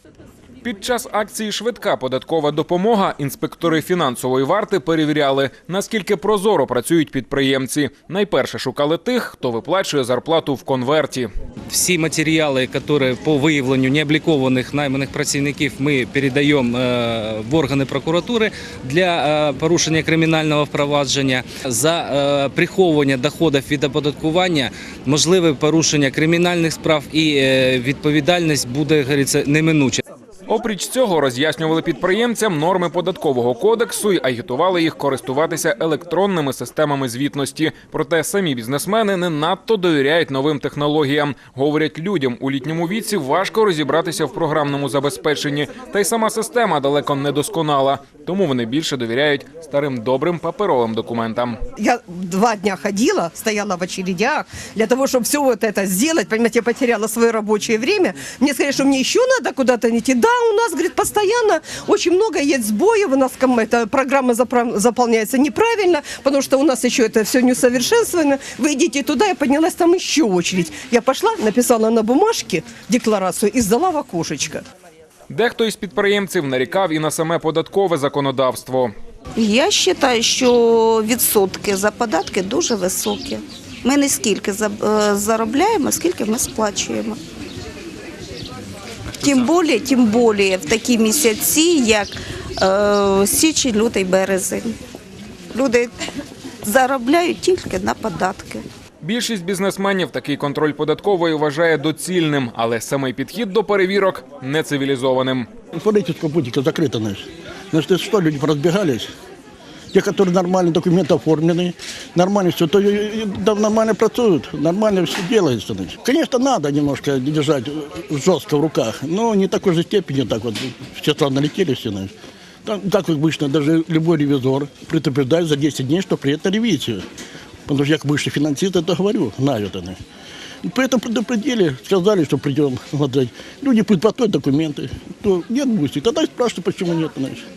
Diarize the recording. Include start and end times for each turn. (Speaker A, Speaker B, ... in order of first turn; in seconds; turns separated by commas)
Speaker A: 0.6-11.3, Speaker B: 11.7-30.0, Speaker A: 30.5-51.6, Speaker C: 51.8-74.7, Speaker A: 75.3-78.9, Speaker D: 79.4-87.1, Speaker D: 89.2-92.1, Speaker D: 92.6-94.7, Speaker D: 95.5-95.9, Speaker D: 96.7-98.6, Speaker A: 99.0-105.5, Speaker E: 105.8-109.1, Speaker E: 109.9-122.1, Speaker E: 122.7-127.0, Speaker E: 127.7-130.0, Speaker E: 130.6-137.4